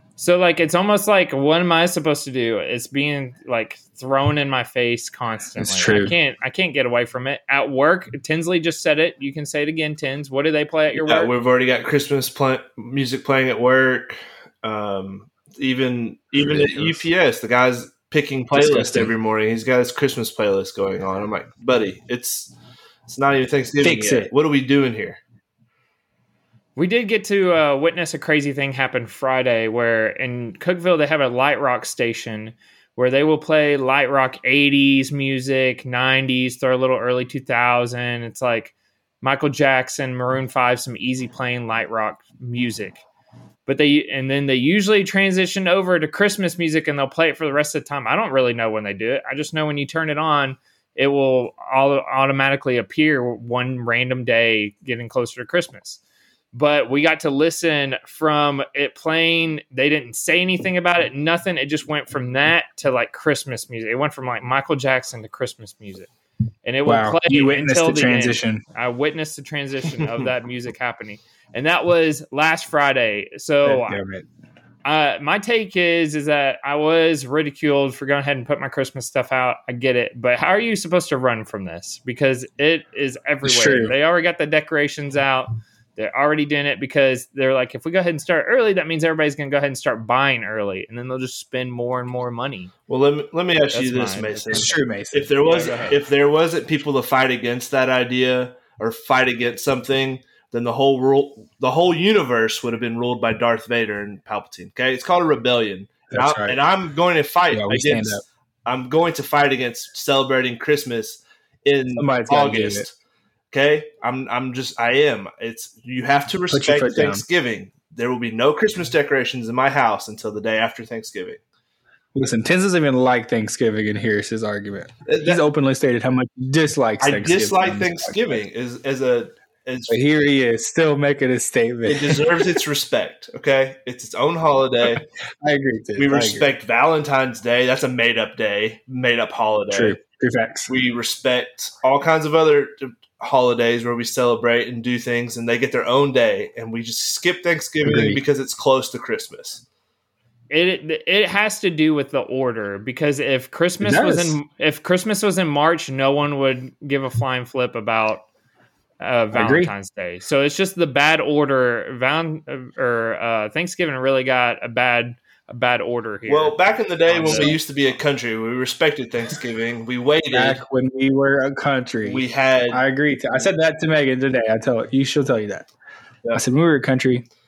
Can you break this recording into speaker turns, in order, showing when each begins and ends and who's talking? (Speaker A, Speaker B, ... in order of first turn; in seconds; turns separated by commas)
Speaker A: 0.2-11.3, Speaker B: 5.6-6.2, Speaker C: 10.9-22.5, Speaker B: 16.3-17.1, Speaker B: 18.5-19.1, Speaker C: 23.1-25.2, Speaker B: 23.8-24.3, Speaker A: 26.8-43.0, Speaker A: 43.6-56.0, Speaker A: 56.5-66.1, Speaker A: 66.6-74.0, Speaker B: 66.8-68.6, Speaker B: 73.6-74.3, Speaker A: 74.8-92.7, Speaker B: 83.4-83.9, Speaker C: 92.9-112.9, Speaker A: 93.7-94.7, Speaker B: 94.5-95.3, Speaker A: 95.4-96.0, Speaker B: 106.1-106.6, Speaker B: 107.5-108.2, Speaker B: 112.0-112.8, Speaker C: 113.5-121.4, Speaker B: 116.5-117.2, Speaker B: 122.1-128.4, Speaker C: 125.1-125.4, Speaker C: 127.0-130.0, Speaker B: 129.9-132.6, Speaker C: 131.8-135.1, Speaker B: 135.0-136.5, Speaker C: 136.0-140.0, Speaker B: 139.7-140.7, Speaker C: 140.7-149.6, Speaker B: 147.8-148.2, Speaker A: 150.5-158.2, Speaker B: 153.8-154.4, Speaker A: 159.0-167.5, Speaker B: 159.3-159.7, Speaker C: 166.3-170.6, Speaker B: 167.2-167.6, Speaker B: 170.3-175.7, Speaker C: 172.0-172.8, Speaker B: 176.3-177.2